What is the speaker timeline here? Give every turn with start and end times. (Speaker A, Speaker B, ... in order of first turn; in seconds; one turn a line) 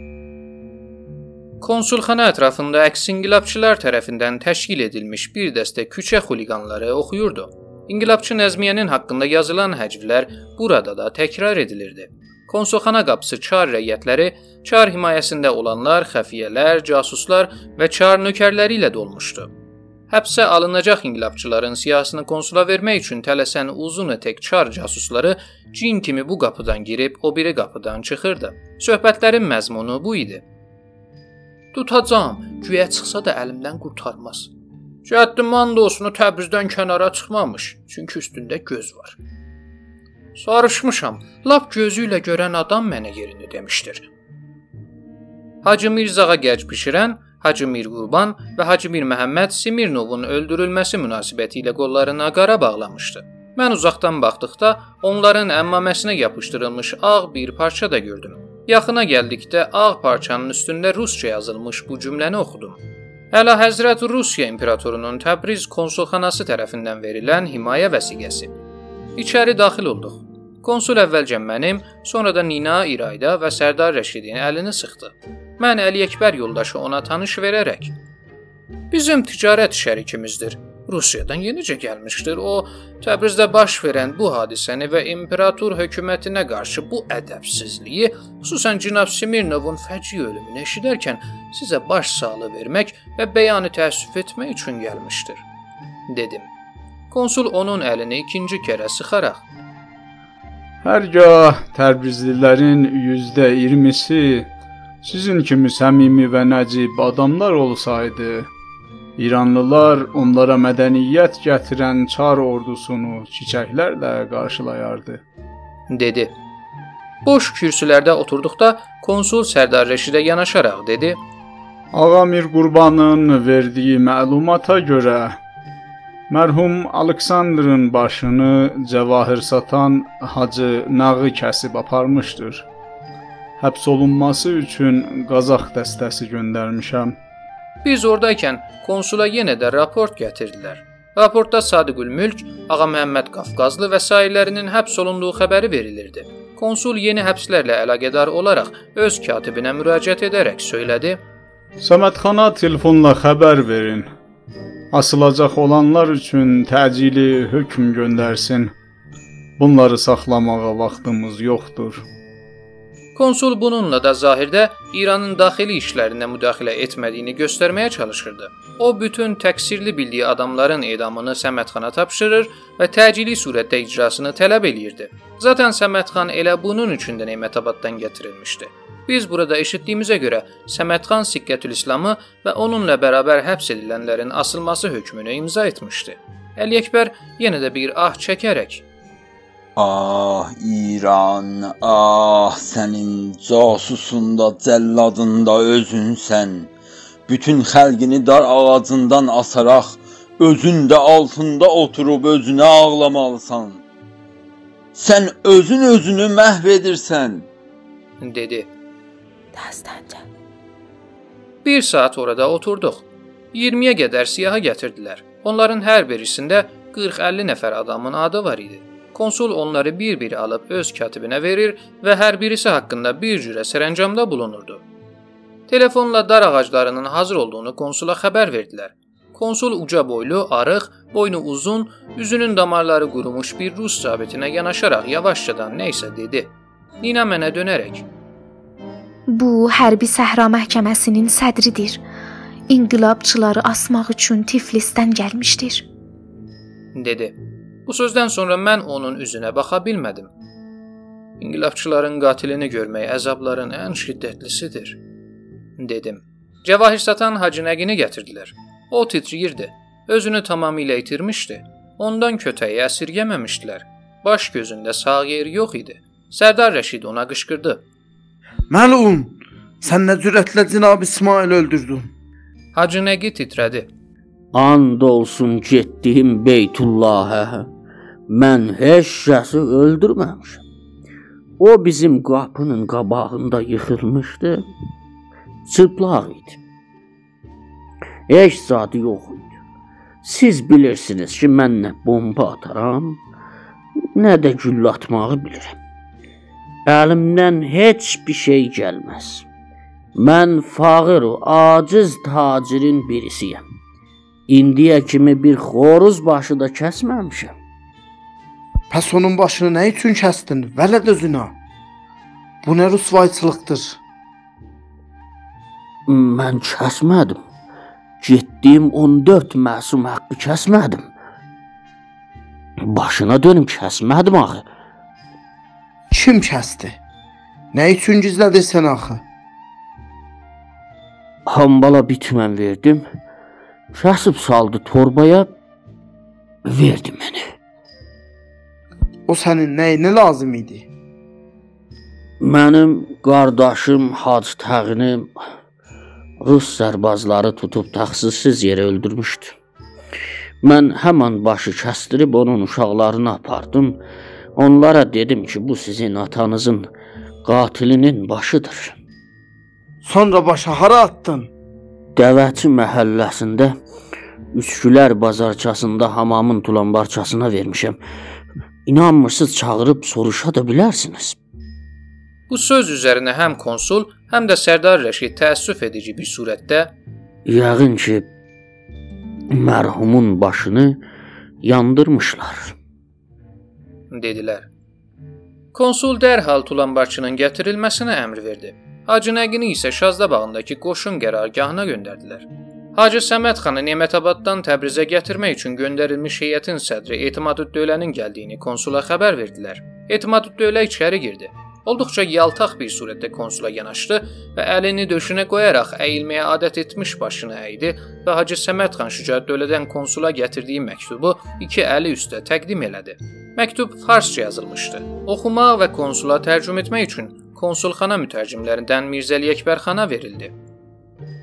Speaker A: 1.6-19.5
Speaker A: 20.1-30.4
Speaker A: 31.7-34.5
Speaker A: 35.0-39.2
Speaker A: 40.4-44.1
Speaker A: 45.6-62.8
Speaker A: 63.3-68.5
Speaker A: 69.2-77.9
Speaker A: 78.9-95.4
Speaker A: 96.1-96.5
Speaker A: 97.1-99.4
Speaker B: 100.8-104.5
Speaker B: 105.0-108.5
Speaker B: 109.2-115.2
Speaker A: 115.9-116.3
Speaker A: 117.2-121.2
Speaker B: 121.9-125.4
Speaker B: 126.3-132.7
Speaker B: 133.6-137.2
Speaker A: 137.8-151.2
Speaker B: 151.8-154.1
Speaker B: 154.9-158.7
Speaker B: 159.6-162.0
Speaker A: 163.1-188.8
Speaker C: 189.8-196.7
Speaker C: 197.3-203.8
Speaker C: 204.9-207.5
Speaker A: 208.2-208.7
Speaker D: 209.5-210.2
Speaker A: 211.6-224.8
Speaker A: 225.7-238.0
Speaker D: 239.3-242.0
Speaker D: 242.7-245.8
Speaker A: 246.9-247.3
Speaker A: 247.9-250.3
Speaker A: 251.4-255.0
Speaker A: 255.8-267.8
Speaker E: 268.7-272.1
Speaker A: 272.7-273.9
Speaker F: 274.5-277.6
Speaker F: 278.3-280.6
Speaker F: 281.6-284.6
Speaker F: 285.7-286.6
Speaker F: 288.3-289.5
Speaker F: 290.2-293.2
Speaker F: 294.1-295.8
Speaker F: 296.9-299.4
Speaker F: 300.1-303.6
Speaker F: 304.5-307.5
Speaker E: 308.9-311.5
Speaker E: 312.6-314.0
Speaker F: 316.1-317.4
Speaker F: 318.2-321.1
Speaker F: 322.9-324.6
Speaker E: 326.1-327.0
Speaker E: 327.7-329.2
Speaker F: 331.5-333.0
Speaker F: 333.9-335.5
Speaker F: 336.7-337.4
Speaker E: 339.3-340.9
Speaker F: 342.4-345.3
Speaker F: 346.4-349.5
Speaker F: 350.6-354.0
Speaker F: 354.6-356.9
Speaker F: 357.4-358.9
Speaker E: 360.0-361.5
Speaker F: 362.1-363.7
Speaker F: 364.5-368.0
Speaker F: 368.9-371.4
Speaker A: 372.5-376.9
Speaker F: 377.5-378.3
Speaker F: 379.5-381.0
Speaker F: 381.6-382.7
Speaker A: 384.1-384.6
Speaker A: 385.7-420.5